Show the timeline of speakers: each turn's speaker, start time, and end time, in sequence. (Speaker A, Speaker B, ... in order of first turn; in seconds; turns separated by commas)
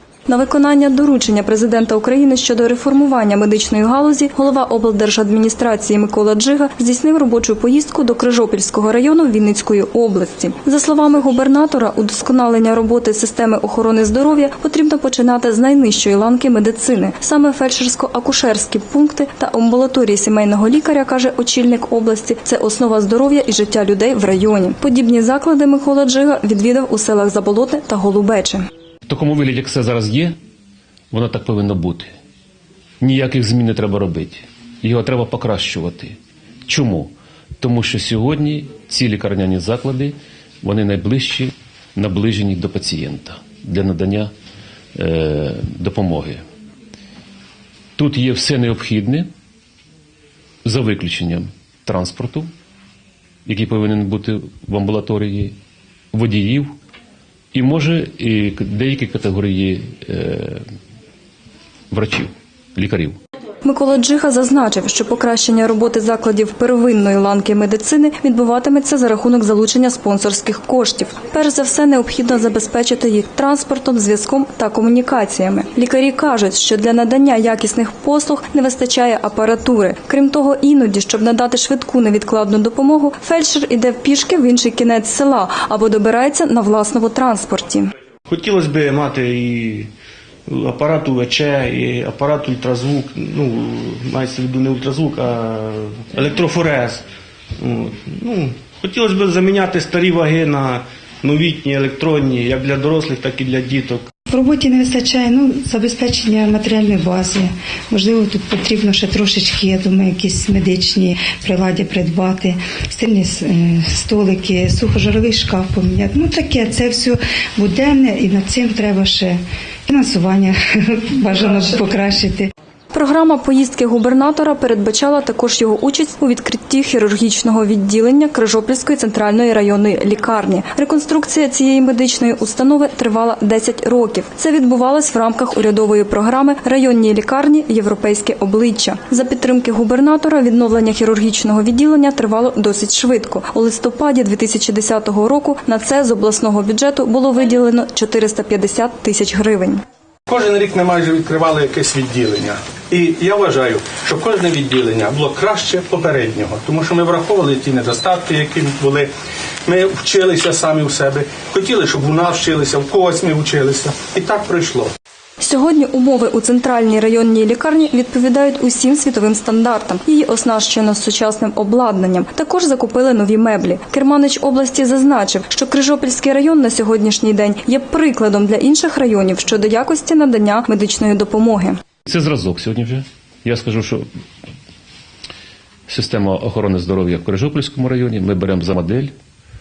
Speaker A: 0.3-28.6, Speaker B: 29.1-30.4, Speaker B: 31.1-32.1, Speaker B: 33.0-36.1, Speaker B: 36.7-44.3, Speaker B: 44.9-46.4, Speaker B: 48.0-49.3, Speaker B: 50.6-52.5, Speaker B: 53.5-55.5, Speaker B: 56.1-56.7, Speaker B: 57.5-60.6, Speaker B: 61.9-63.2, Speaker A: 63.6-87.9, Speaker C: 88.3-89.9, Speaker C: 90.5-97.0, Speaker C: 97.6-104.1, Speaker D: 104.3-122.5, Speaker A: 122.9-149.8, Speaker E: 150.3-159.1, Speaker E: 159.7-164.9, Speaker A: 165.4-181.8, Speaker B: 182.1-184.1, Speaker B: 185.9-189.1